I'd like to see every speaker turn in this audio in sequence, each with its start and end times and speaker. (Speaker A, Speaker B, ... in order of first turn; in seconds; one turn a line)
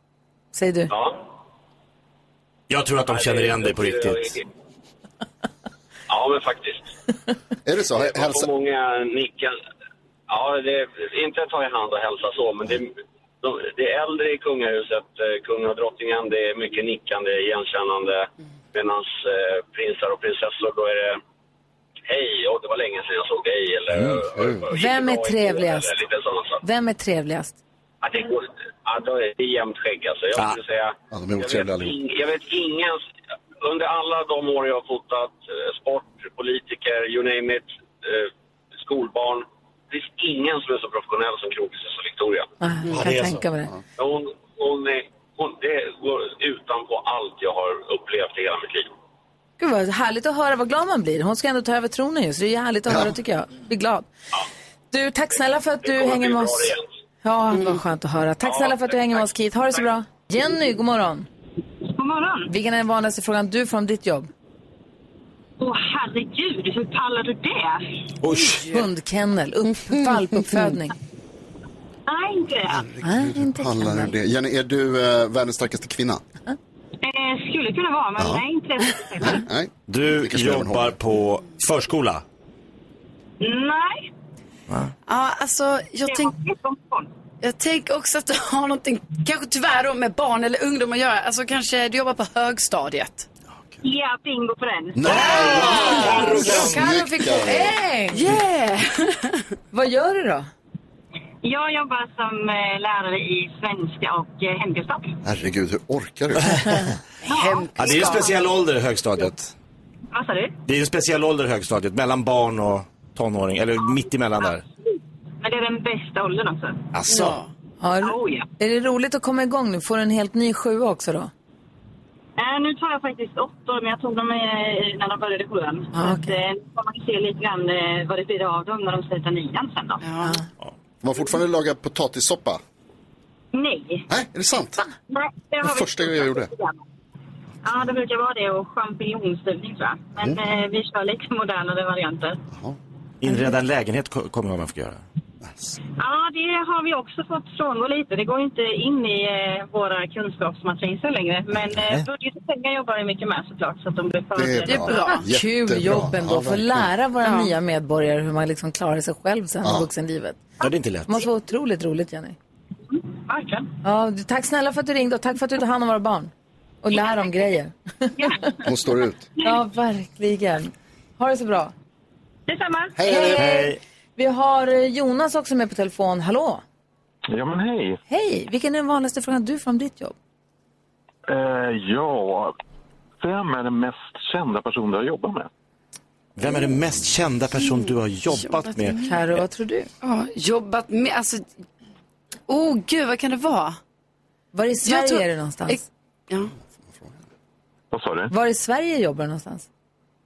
Speaker A: 0.5-0.9
Speaker B: 0.9-1.2
Speaker C: 2.7-4.4
Speaker B: 3.1-4.5
Speaker B: 6.1-6.9
Speaker D: 7.7-8.5
Speaker B: 7.9-9.6
Speaker B: 10.3-21.2
Speaker B: 22.1-26.6
Speaker D: 24.3-24.6
Speaker A: 24.7-26.0
Speaker A: 26.6-27.6
Speaker B: 28.0-33.0
Speaker D: 31.1-31.9
Speaker B: 33.6-42.5
Speaker A: 42.6-43.7
Speaker C: 42.9-43.4
Speaker B: 44.0-48.9
Speaker A: 49.6-54.1
Speaker A: 54.9-61.3
Speaker B: 55.8-56.9
Speaker B: 58.4-59.9
Speaker E: 61.9-62.5
Speaker A: 62.5-64.3
Speaker E: 65.6-68.0
Speaker C: 68.2-68.6
Speaker A: 68.6-71.0
Speaker E: 72.1-72.9
Speaker D: 72.7-76.2
Speaker A: 73.0-74.1
Speaker E: 77.0-79.5
Speaker D: 78.2-78.4
Speaker D: 79.2-81.0
Speaker C: 79.9-82.2
Speaker E: 83.4-84.1
Speaker F: 85.1-86.3
Speaker E: 86.1-87.1
Speaker F: 87.4-93.3
Speaker E: 93.8-96.0
Speaker D: 95.0-97.8
Speaker C: 95.0-96.9
Speaker A: 95.5-98.3
Speaker F: 95.8-96.1
Speaker F: 98.1-99.4
Speaker A: 99.7-100.5
Speaker E: 101.4-105.2
Speaker D: 105.2-106.8
Speaker C: 106.5-106.8
Speaker F: 107.2-108.3
Speaker E: 107.3-108.4
Speaker C: 107.8-109.5
Speaker E: 110.1-110.6
Speaker C: 110.7-114.7
Speaker E: 114.5-116.8
Speaker C: 116.9-117.4
Speaker F: 117.1-117.5
Speaker A: 117.8-121.3
Speaker E: 118.0-118.5
Speaker E: 122.4-130.1
Speaker A: 125.9-126.3
Speaker F: 130.0-130.4
Speaker D: 131.0-132.6
Speaker E: 133.5-134.1
Speaker D: 134.1-134.8
Speaker E: 135.1-136.8
Speaker D: 135.6-136.5
Speaker E: 137.6-142.4
Speaker D: 142.5-142.8
Speaker C: 143.2-145.0
Speaker D: 145.4-145.8
Speaker E: 146.0-155.0
Speaker C: 151.7-152.1
Speaker D: 154.3-156.9
Speaker A: 154.7-160.5
Speaker F: 154.7-155.2
Speaker F: 157.2-157.5
Speaker D: 159.6-159.9
Speaker C: 160.6-161.2
Speaker A: 161.1-162.4
Speaker E: 162.9-163.7
Speaker A: 163.8-166.3
Speaker A: 166.8-168.6
Speaker E: 168.2-169.6
Speaker D: 168.6-169.2
Speaker A: 169.4-171.7
Speaker E: 172.5-173.0
Speaker D: 173.0-173.5
Speaker A: 173.1-176.6
Speaker C: 173.3-173.8
Speaker G: 177.3-178.0
Speaker A: 178.1-180.2
Speaker G: 181.3-182.5
Speaker G: 183.2-185.5
Speaker C: 186.4-189.0
Speaker F: 188.3-189.1
Speaker A: 189.1-189.9
Speaker F: 190.0-191.5
Speaker F: 192.5-193.8
Speaker A: 194.5-195.8
Speaker F: 194.8-196.5
Speaker D: 196.9-197.2
Speaker G: 197.9-198.3
Speaker A: 198.3-199.7